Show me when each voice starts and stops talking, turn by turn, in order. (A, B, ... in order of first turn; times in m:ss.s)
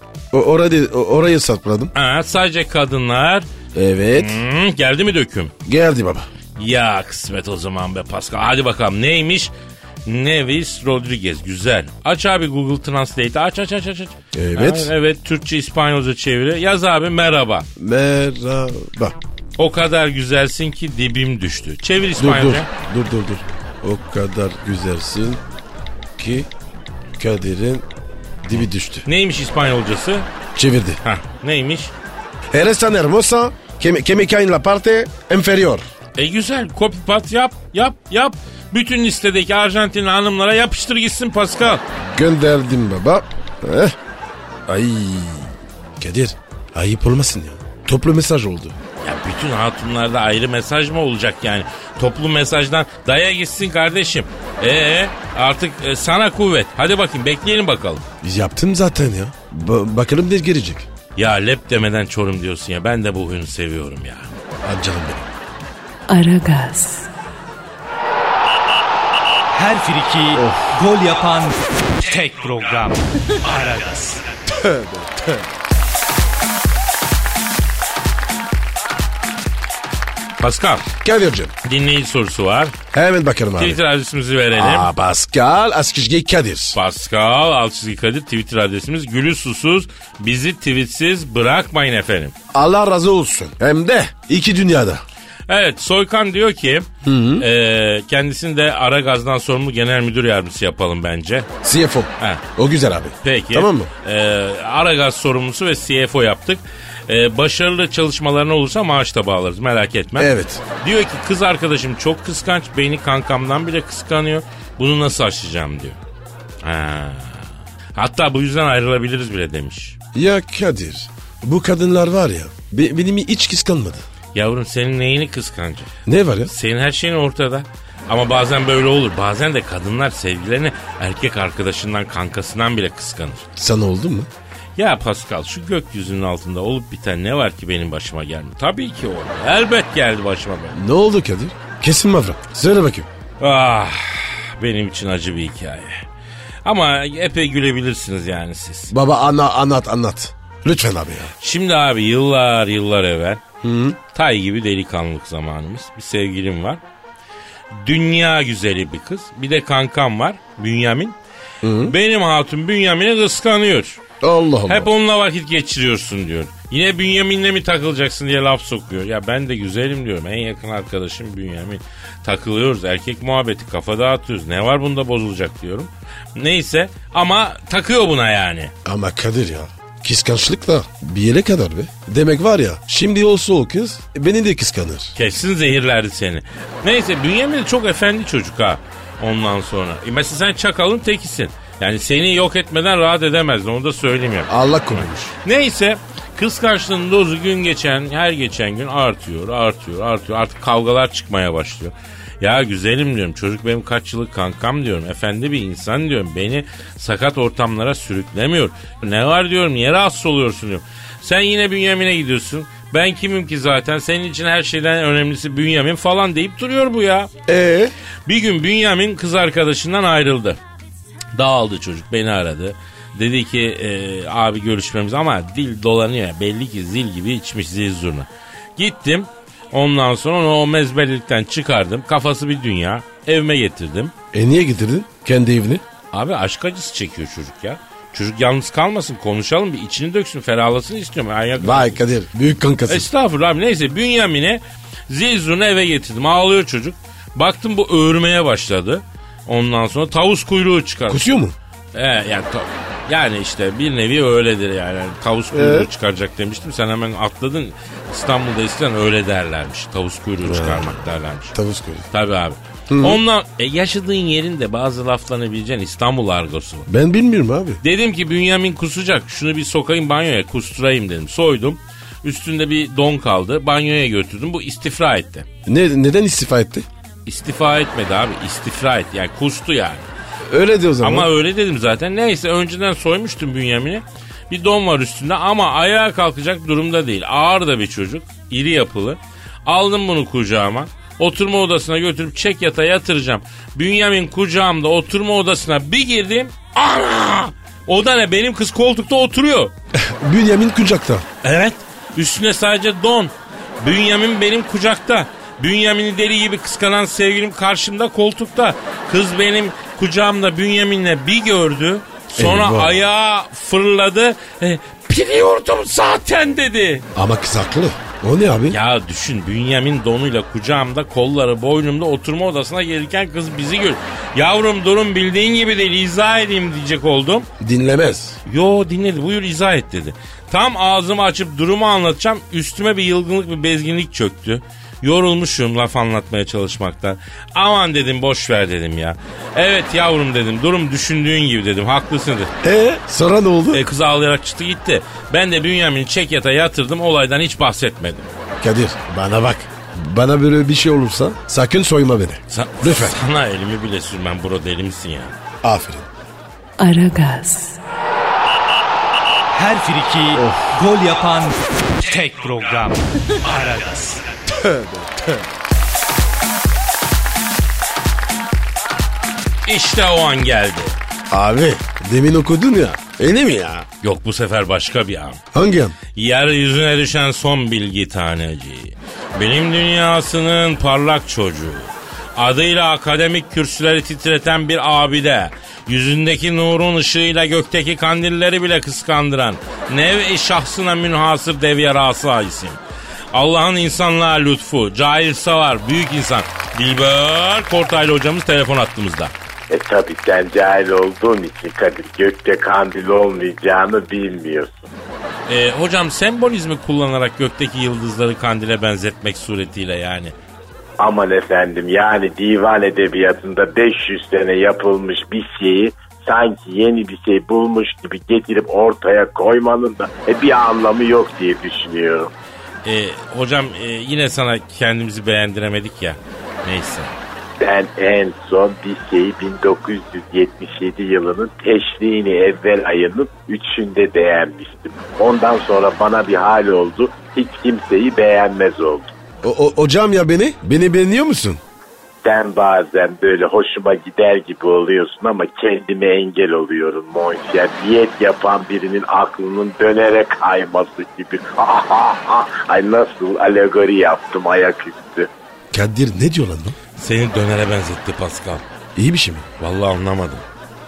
0:00.3-0:01.9 A
0:01.9-0:03.4 B
0:03.7-0:04.4 A
0:04.1-0:05.5 B
0:05.6-0:06.3 A
0:06.6-0:09.5 B
0:10.0-0:17.6 B
0:14.3-0:14.9 A
0:17.8-0:19.2 A
0:19.6-0:22.7 B
0:22.2-0:25.4 A
0:26.2-0:26.5 A
0:27.2-0:27.8 A
0:28.4-0:29.0 A
0:29.0-0:30.3 B
0:30.5-0:31.0 A
0:31.0-0:31.9 B
0:32.5-0:35.8 A
0:36.2-0:41.8 B
0:42.0-0:43.9 A
0:44.7-0:48.7 A
0:49.0-0:58.0 B
0:58.2-1:00.9 A
1:01.2-1:04.3 B
1:04.6-1:05.3 A
1:06.1-1:07.1 C
1:09.5-1:14.2 D
1:10.3-1:10.7 A
1:14.5-1:15.4 A
1:20.4-1:20.9 B
1:21.0-1:21.5 A
1:21.6-1:22.8 B
1:22.9-1:23.8 A
1:23.6-1:24.9 B
1:24.5-1:26.8 A
1:26.7-1:32.3 B
1:32.5-1:35.0 A
1:35.5-1:41.5 B
1:37.0-1:37.4 A
1:41.6-1:43.9 A
1:42.2-1:42.4 B
1:43.2-1:56.0 B
1:50.2-1:50.6 A
1:56.6-2:00.0 B
2:00.1-2:04.0 A
2:04.3-2:05.9 B
2:06.0-2:06.5 A
2:06.5-2:13.4 B
2:13.6-2:14.3 A
2:14.8-2:20.8 B
2:20.7-2:23.1 A
2:23.4-2:26.0 B
2:26.6-2:28.9 B
2:28.9-2:31.3 A
2:31.4-2:33.4 B
2:33.6-2:34.0 A
2:34.1-2:36.8 B
2:37.8-2:41.2 B
2:41.6-2:41.9 A
2:41.8-2:44.0 B
2:44.2-2:44.9 A
2:44.7-2:58.7 B
2:58.8-3:05.1 A
3:05.2-3:37.3 B
3:14.5-3:15.3 A
3:37.5-3:37.9 A
3:38.2-3:40.6 B
3:41.3-3:54.1 B
3:54.3-3:55.8 A
3:56.1-4:02.0 B
4:01.6-4:03.1 A
4:02.9-4:11.3 B
4:11.1-4:11.5 A
4:11.9-4:21.5 B
4:15.5-4:15.9 A
4:20.4-4:21.0 A
4:21.5-4:22.0 A
4:22.1-4:26.9 B
4:22.9-4:23.2 A
4:26.9-4:27.8 A
4:27.8-4:35.4 B
4:35.6-4:36.9 A
4:37.2-4:40.1 B
4:40.5-4:41.3 A
4:41.0-4:59.7 B
4:59.9-5:01.2 A
5:01.4-5:17.0 B
5:12.4-5:13.0 A
5:17.1-5:18.8 A
5:18.7-5:27.5 B
5:27.6-5:28.4 A
5:28.4-5:42.5 B
5:42.6-5:43.8 A
5:43.7-5:48.3 B
5:48.6-5:53.2 A
5:52.5-5:55.3 B
5:55.6-5:56.1 A
5:56.8-5:57.8 C
5:59.5-6:04.2 D
6:00.4-6:00.7 A
6:04.5-6:05.4 A
6:09.6-6:11.0 B
6:11.3-6:13.9 A
6:14.0-6:15.4 B
6:15.5-6:16.0 A
6:16.1-6:32.8 B
6:33.3-6:39.3 B
6:39.7-6:44.9 E
6:45.5-6:50.3 B
6:51.0-7:02.3 E
7:02.8-7:07.1 B
7:07.6-7:19.1 E
7:19.4-7:21.6 A
7:22.2-7:35.3 E
7:35.7-7:36.8 A
7:37.0-7:38.6 B
7:39.0-7:39.5 A
7:39.6-7:40.4 B